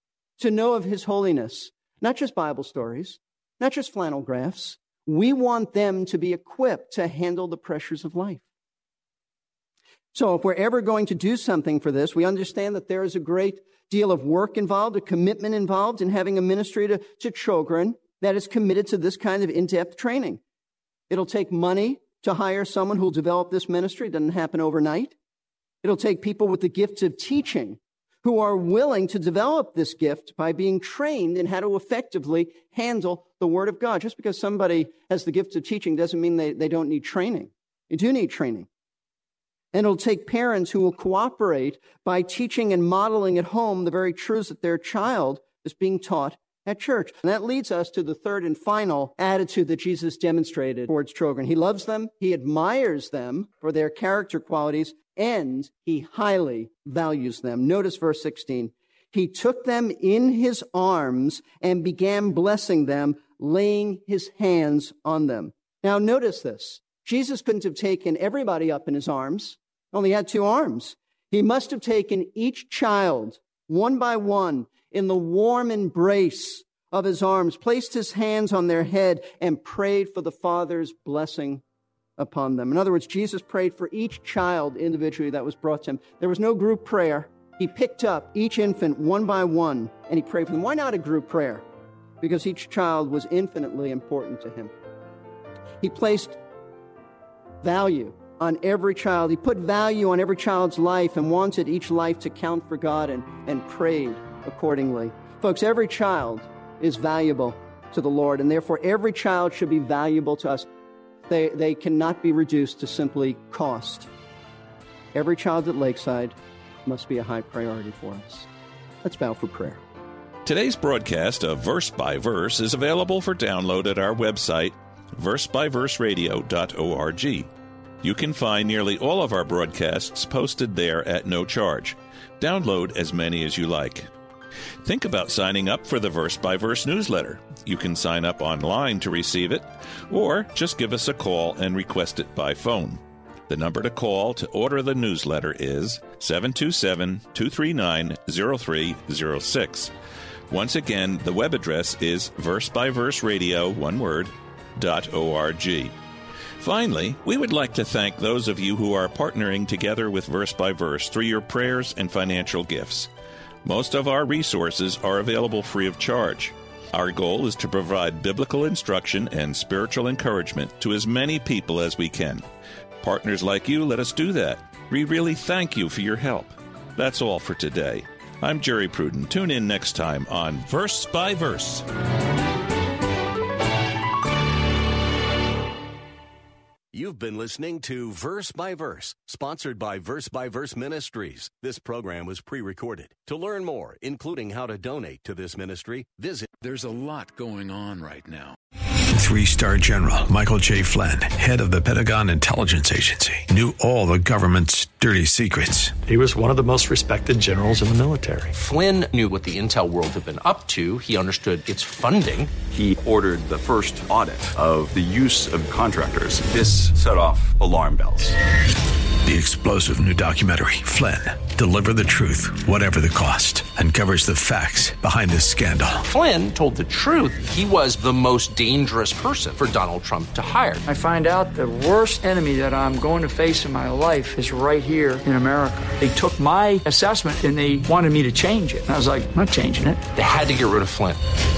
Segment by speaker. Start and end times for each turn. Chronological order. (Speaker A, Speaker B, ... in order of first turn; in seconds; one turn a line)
Speaker A: 0.4-8.4
Speaker A: 10.1-20.4
Speaker A: 21.1-25.1
Speaker A: 25.8-38.7
Speaker A: 39.7-81.6
Speaker A: 82.2-91.6
Speaker A: 92.2-94.7
Speaker A: 95.8-96.4
Speaker A: 97.6-110.7
Speaker A: 111.3-114.1
Speaker A: 115.1-118.5
Speaker A: 119.0-119.8
Speaker B: 120.5-127.5
Speaker B: 128.0-134.1
Speaker B: 134.8-149.9
Speaker B: 150.5-155.9
Speaker B: 156.6-163.1
Speaker B: 163.7-172.4
Speaker B: 173.0-181.9
Speaker C: 186.9-196.5
Speaker D: 196.6-198.6
Speaker E: 199.1-206.0
Speaker F: 206.1-208.5
Speaker G: 208.5-212.5
Speaker H: 212.7-218.4
Speaker E: 219.2-226.0
Speaker G: 226.1-230.8
Speaker I: 230.9-240.0
Speaker G: 240.2-241.2